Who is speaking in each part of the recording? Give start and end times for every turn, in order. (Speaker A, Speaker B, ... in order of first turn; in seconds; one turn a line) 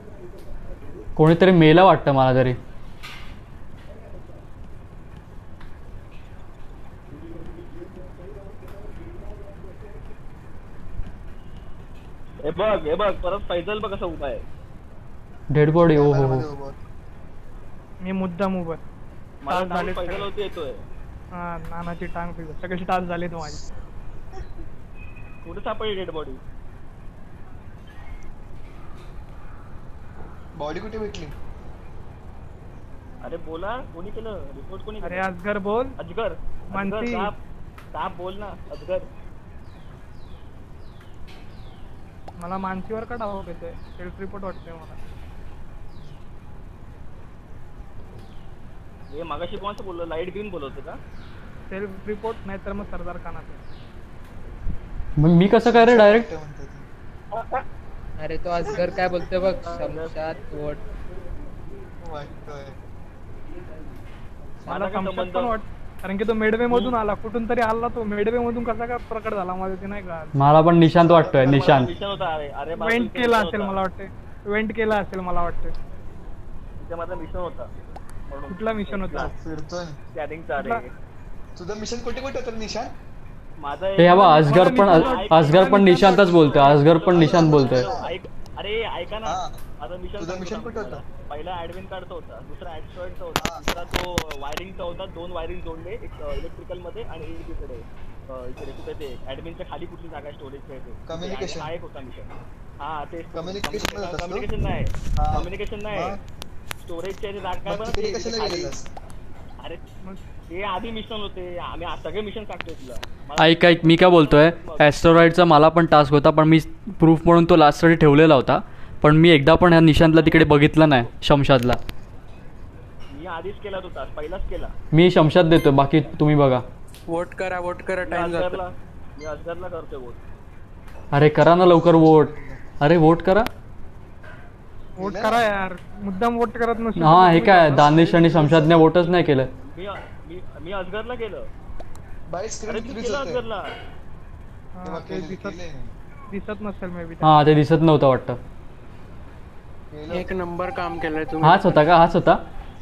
Speaker A: 1.2-2.6
Speaker B: 12.4-14.4
Speaker A: 15.5-16.5
Speaker C: 15.9-16.8
Speaker D: 18.0-18.8
Speaker B: 19.4-20.8
Speaker D: 19.5-20.3
Speaker D: 21.4-23.6
Speaker B: 25.4-26.4
Speaker C: 30.6-31.3
Speaker B: 33.2-35.3
Speaker D: 35.0-36.0
Speaker B: 36.0-37.4
Speaker D: 36.7-37.3
Speaker B: 37.9-39.1
Speaker D: 42.4-45.0
Speaker B: 49.1-51.0
Speaker D: 51.7-53.6
Speaker A: 55.2-56.3
Speaker C: 55.5-56.9
Speaker B: 57.4-57.6
Speaker E: 58.2-60.8
Speaker B: 58.7-60.2
Speaker C: 62.0-62.8
Speaker D: 64.6-70.3
Speaker B: 64.7-65.6
Speaker B: 66.7-67.0
Speaker A: 70.3-71.9
Speaker C: 71.0-72.1
Speaker B: 71.5-73.8
Speaker D: 72.8-75.7
Speaker B: 76.8-77.7
Speaker B: 78.3-79.3
Speaker D: 78.5-79.3
Speaker C: 79.1-80.0
Speaker B: 80.1-80.9
Speaker D: 80.5-80.8
Speaker C: 81.6-82.9
Speaker B: 83.6-102.3
Speaker A: 84.0-87.9
Speaker D: 84.1-86.9
Speaker C: 87.1-88.1
Speaker C: 89.2-89.6
Speaker C: 90.2-91.0
Speaker C: 93.4-93.8
Speaker C: 101.1-101.7
Speaker B: 102.8-106.2
Speaker C: 103.3-104.5
Speaker C: 105.2-106.2
Speaker B: 106.8-108.7
Speaker C: 107.6-108.9
Speaker B: 110.5-115.0
Speaker A: 113.4-121.8
Speaker B: 120.1-121.1
Speaker B: 123.1-124.7
Speaker A: 124.9-126.6
Speaker F: 127.1-128.6
Speaker B: 128.1-130.2
Speaker A: 131.1-133.5
Speaker C: 131.7-132.6
Speaker C: 135.0-135.4
Speaker D: 135.0-138.0
Speaker B: 136.7-137.1
Speaker A: 137.0-139.5
Speaker C: 137.3-138.9
Speaker B: 139.7-141.5
Speaker C: 142.3-143.4
Speaker B: 142.7-143.7
Speaker D: 144.8-145.6
Speaker C: 144.8-145.9
Speaker D: 146.3-147.3
Speaker A: 147.2-148.4
Speaker C: 149.9-150.3
Speaker F: 150.1-151.8
Speaker A: 151.4-152.4